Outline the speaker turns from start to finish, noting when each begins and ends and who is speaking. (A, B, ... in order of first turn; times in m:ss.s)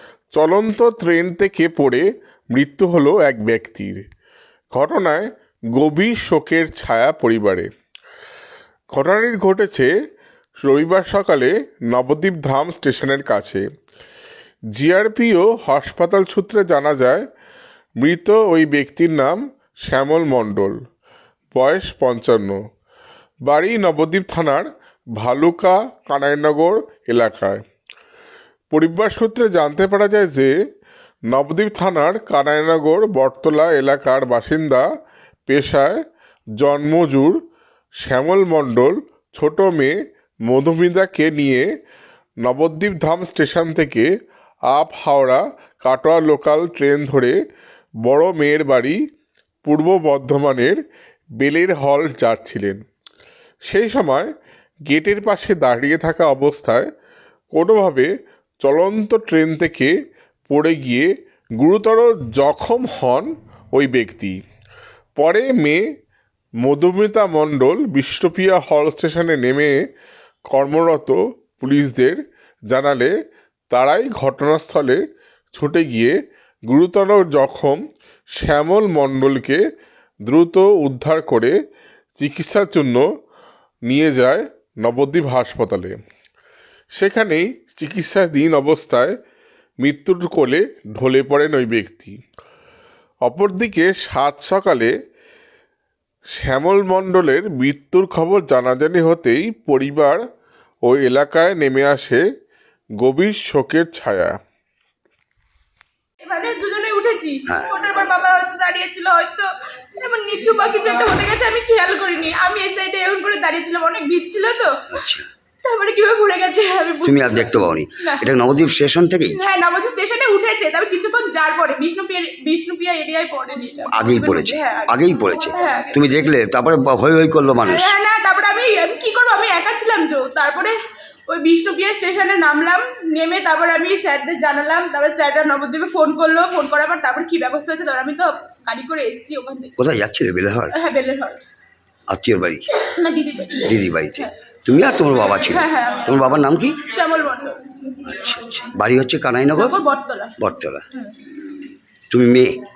0:00.4-0:04.1 A
0:04.7-0:07.7 A
0:08.9-0:09.9 A
0:10.6-0:13.6 A
0:14.8-0:17.3 A
0:18.0-0:20.8 A
0:21.5-0:22.6 A
0:23.4-0:27.6 A
0:28.7-0:30.5 A
0:31.3-0:34.8 A
0:35.5-0:36.0 A
0:36.6-0:37.4 A
0:38.0-0:41.7 A
0:42.4-0:44.1 A
0:44.7-0:47.4 A
0:48.0-0:49.0 A
0:49.6-0:50.8 A
0:51.4-0:52.8 A
0:53.6-0:54.3 A
0:54.9-0:56.9 A
0:57.5-0:58.1 A
0:58.6-0:59.9 A
1:00.5-1:04.4 A
1:05.2-1:05.8 A
1:06.6-1:09.8 A
1:10.5-1:12.2 A
1:12.7-1:13.1 A
1:13.7-1:15.0 A
1:15.5-1:16.2 A
1:16.7-1:17.8 A
1:18.4-1:19.6 A
1:20.3-1:21.5 A
1:22.2-1:23.0 A
1:23.9-1:25.9 A
1:27.0-1:29.2 A
1:29.8-1:32.2 A
1:33.2-1:34.9 A
1:36.4-1:40.2 A
1:40.8-1:42.2 A
1:43.0-1:44.4 A
1:46.2-1:54.9 B
1:54.9-1:55.3 C
1:55.6-1:58.3 B
1:57.0-1:59.4 C
1:59.3-2:06.3 B
2:03.9-2:07.9 C
2:07.6-2:19.8 B
2:19.8-2:20.8 C
2:20.7-2:21.4 B
2:22.1-2:22.7 C
2:23.0-2:24.3 B
2:23.6-2:26.9 C
2:25.2-2:28.1 B
2:28.0-2:29.8 C
2:29.6-2:30.4 B
2:30.4-2:30.9 C
2:30.9-2:31.3 B
2:32.1-2:32.6 C